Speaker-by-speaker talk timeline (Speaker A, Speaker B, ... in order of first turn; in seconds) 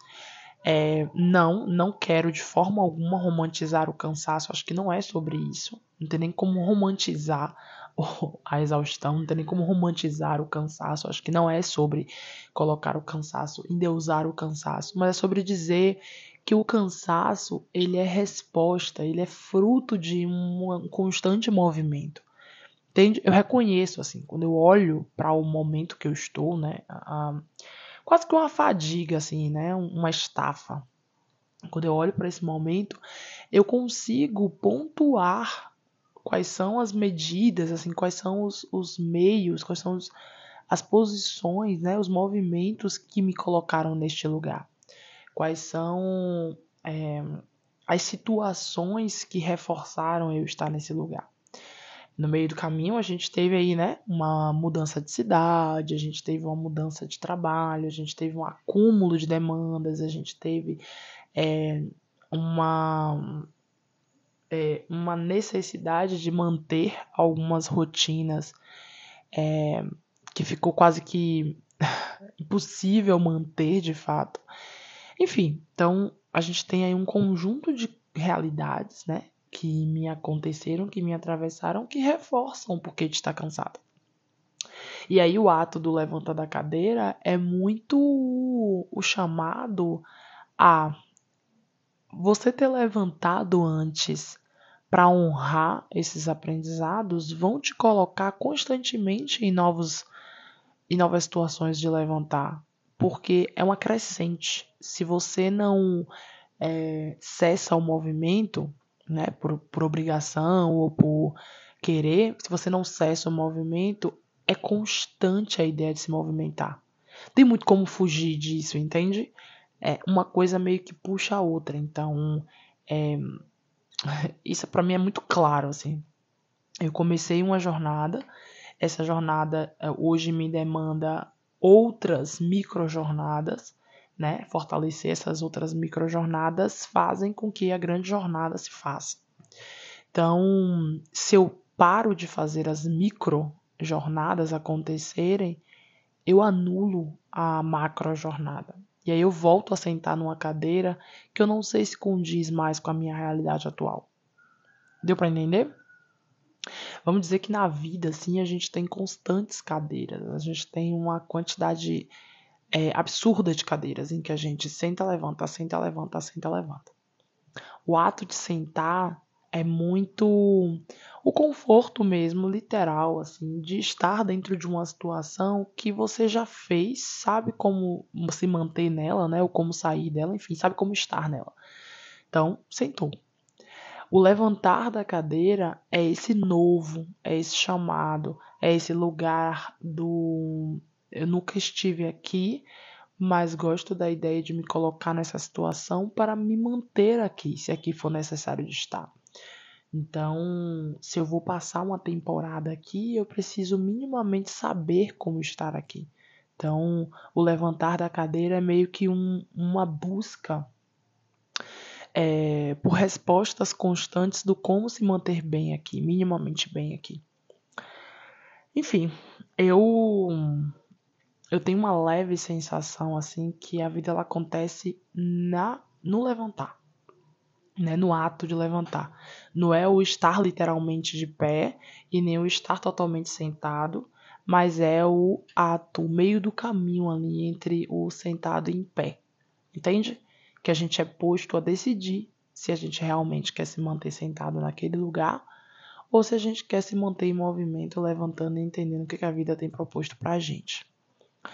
Speaker A: 0.7-22.3, 22.9-27.5, 28.1-30.9, 31.7-33.0, 33.5-35.7, 36.2-40.1, 40.7-44.7, 45.3-51.3, 52.2-60.8, 61.4-63.5, 64.5-68.6, 69.3-74.4, 75.2-83.8, 85.1-90.1, 90.6-90.9, 92.1-100.1, 100.9-106.1, 106.6-116.8, 117.3-123.4, 124.1-126.0, 126.8-128.2, 128.8-139.2, 140.1-145.6, 146.3-154.1, 155.0-155.7, 157.0-162.1, 162.7-166.9, 167.9-181.6, 182.3-183.1, 184.1-199.1, 199.9-210.7, 212.2-217.2, 218.7-220.7, 221.5-226.8, 227.8-239.2, 239.7-245.4, 246.1-250.9